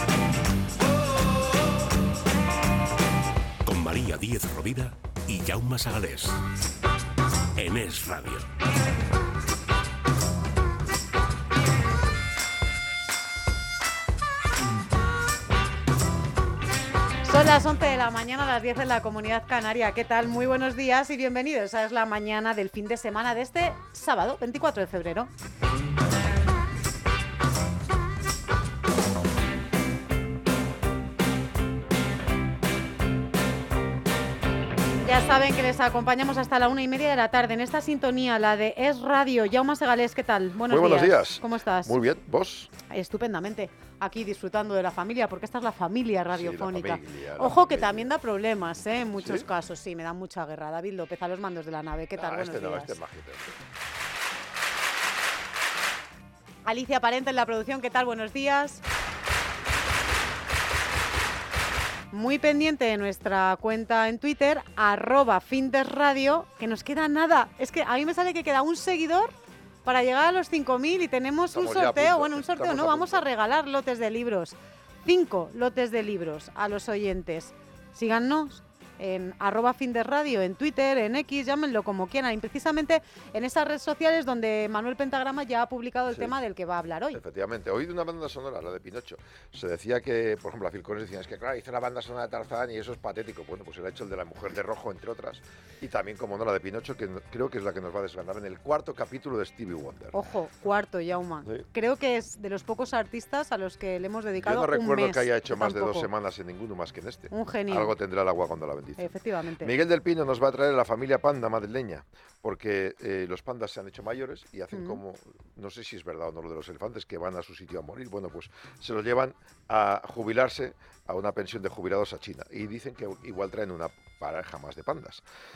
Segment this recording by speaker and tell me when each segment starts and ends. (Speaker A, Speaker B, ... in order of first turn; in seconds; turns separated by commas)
Speaker A: 3.6-6.4, Speaker A: 7.6-8.5, Speaker B: 17.3-25.3, Speaker B: 35.0-42.0, Speaker C: 40.7-42.7, Speaker B: 42.9-53.0, Speaker C: 46.3-48.2, Speaker C: 49.2-49.5, Speaker C: 52.2-53.6, Speaker B: 56.6-58.8, Speaker B: 62.1-69.3, Speaker B: 69.8-87.2, Speaker C: 71.5-73.3, Speaker C: 86.1-86.4, Speaker C: 87.1-100.3, Speaker B: 100.1-106.1, Speaker C: 104.4-125.2, Speaker B: 107.3-107.9, Speaker B: 109.0-109.7, Speaker B: 114.7-115.0